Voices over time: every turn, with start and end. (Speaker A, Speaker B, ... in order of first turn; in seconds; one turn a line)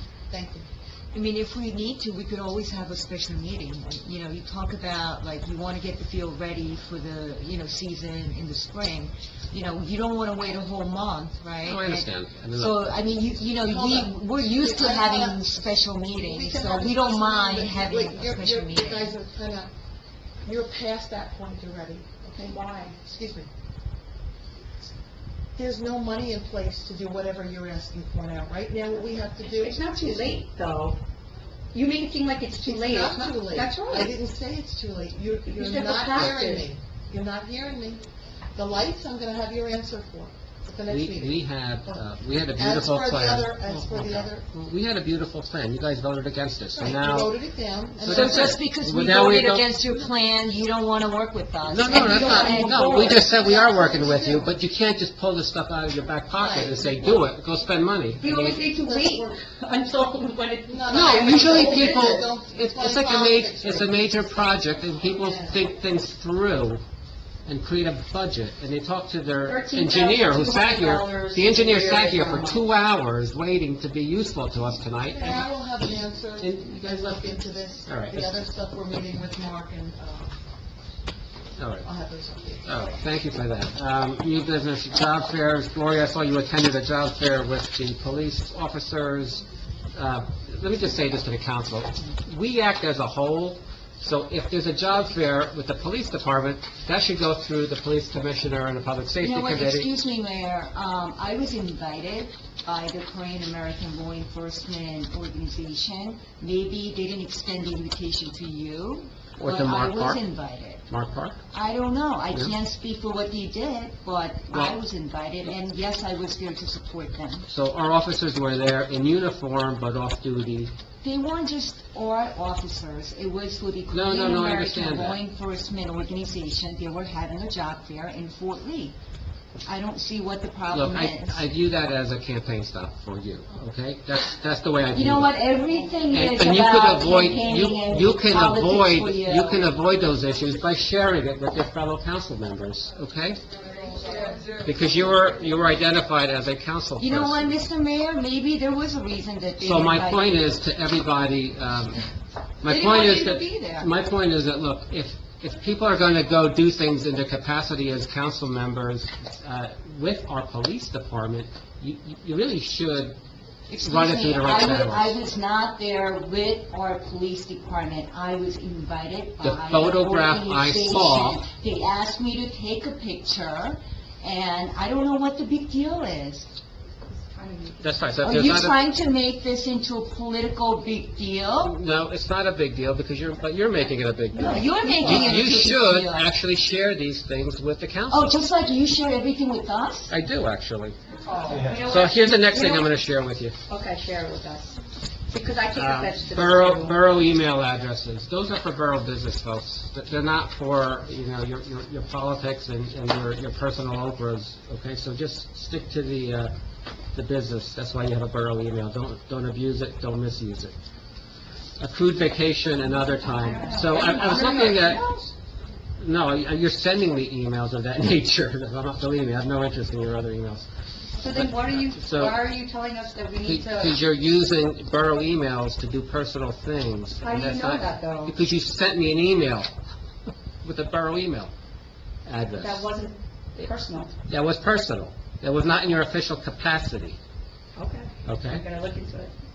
Speaker A: 0.3-0.7
Speaker B: 1.1-19.1
Speaker C: 11.6-12.8
Speaker A: 13.6-19.7
Speaker A: 20.4-23.5
Speaker D: 22.4-22.9
Speaker A: 25.6-30.4
Speaker D: 29.4-31.0
Speaker D: 31.7-34.1
Speaker A: 32.6-38.0
Speaker D: 35.5-36.6
Speaker A: 38.5-42.0
Speaker C: 40.9-47.3
Speaker A: 42.6-44.5
Speaker A: 46.7-48.6
Speaker C: 48.0-49.7
Speaker B: 48.0-53.2
Speaker C: 51.7-58.6
Speaker D: 51.9-53.2
Speaker A: 52.2-54.5
Speaker A: 56.3-57.3
Speaker D: 58.2-62.2
Speaker A: 58.6-59.3
Speaker A: 60.7-64.3
Speaker C: 60.9-66.8
Speaker A: 65.2-65.6
Speaker C: 67.5-75.4
Speaker D: 69.5-72.6
Speaker A: 75.1-80.4
Speaker C: 76.4-78.3
Speaker C: 81.6-81.8
Speaker A: 81.8-82.9
Speaker C: 82.6-89.4
Speaker C: 89.9-99.9
Speaker B: 99.2-110.8
Speaker C: 109.4-110.2
Speaker C: 110.9-111.4
Speaker B: 111.5-117.5
Speaker C: 114.5-114.8
Speaker C: 117.5-120.7
Speaker B: 121.0-128.9
Speaker C: 123.9-125.2
Speaker B: 129.6-131.4
Speaker C: 130.7-135.3
Speaker B: 134.9-139.7
Speaker C: 136.1-143.4
Speaker D: 144.0-144.3
Speaker C: 144.6-147.6
Speaker B: 147.0-150.5
Speaker C: 149.6-152.1
Speaker C: 152.6-163.2
Speaker B: 152.6-153.9
Speaker B: 163.7-176.5
Speaker C: 163.8-165.2
Speaker C: 169.4-171.4
Speaker D: 177.1-178.0
Speaker C: 177.8-178.8
Speaker B: 178.2-181.8
Speaker C: 181.6-188.3
Speaker D: 184.3-185.4
Speaker B: 184.4-186.3
Speaker B: 188.1-190.1
Speaker C: 190.1-190.9
Speaker D: 191.3-192.9
Speaker C: 191.7-193.5
Speaker D: 193.7-197.0
Speaker C: 195.7-206.5
Speaker C: 207.1-210.7
Speaker C: 211.8-215.0
Speaker D: 213.2-215.3
Speaker C: 216.0-220.7
Speaker D: 221.2-224.0
Speaker C: 221.3-222.4
Speaker C: 223.4-229.7
Speaker D: 227.2-228.3
Speaker C: 230.6-231.5
Speaker C: 232.2-232.9
Speaker D: 232.6-234.1
Speaker C: 234.3-237.2
Speaker D: 237.8-239.3
Speaker C: 238.2-238.6